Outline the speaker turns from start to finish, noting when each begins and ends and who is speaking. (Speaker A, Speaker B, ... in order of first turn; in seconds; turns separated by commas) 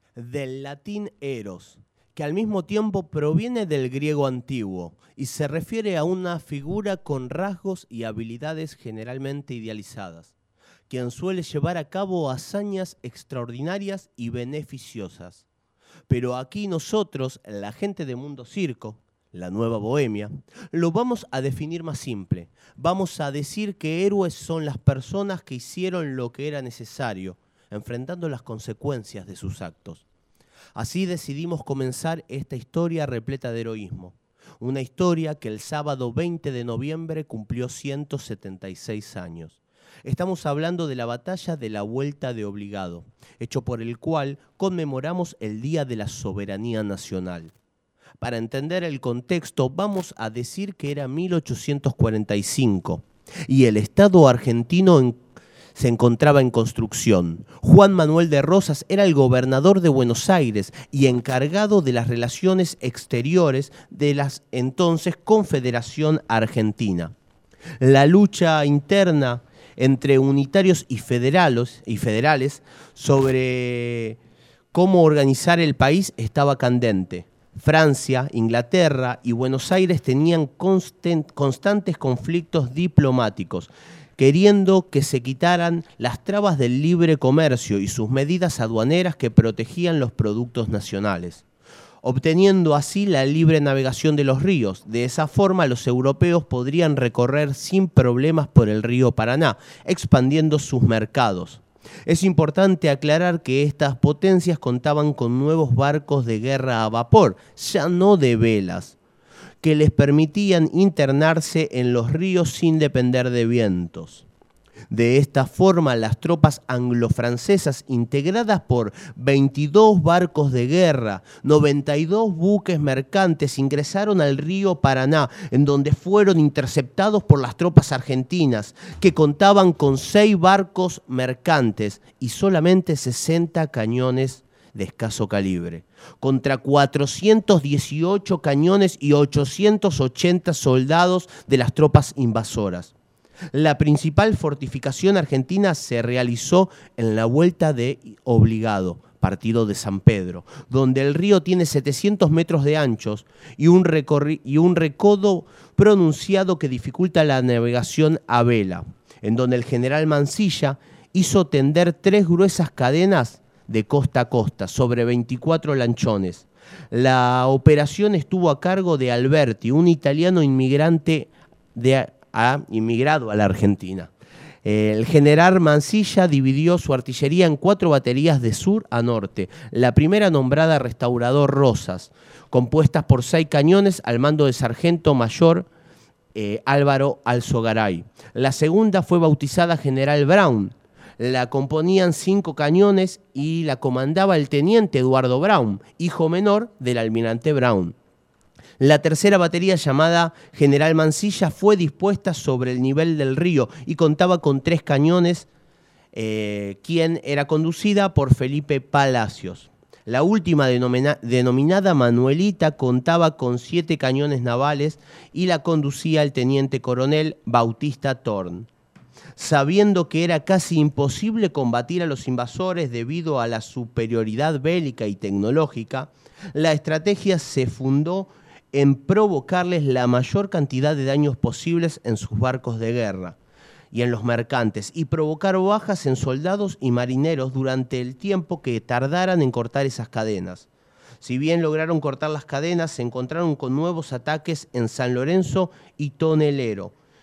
Speaker A: 0.1-10.3, Speaker A: 10.9-15.4, Speaker A: 16.1-30.0, Speaker A: 30.7-47.5, Speaker A: 48.2-55.2, Speaker A: 55.7-67.1, Speaker A: 67.8-74.2, Speaker A: 74.7-91.4, Speaker A: 92.0-109.0, Speaker A: 109.6-114.2, Speaker A: 114.9-142.9, Speaker A: 143.5-174.1, Speaker A: 174.6-185.7, Speaker A: 186.3-197.9, Speaker A: 198.8-205.5, Speaker A: 206.1-218.7, Speaker A: 219.3-233.3, Speaker A: 233.9-240.7, Speaker A: 241.2-246.9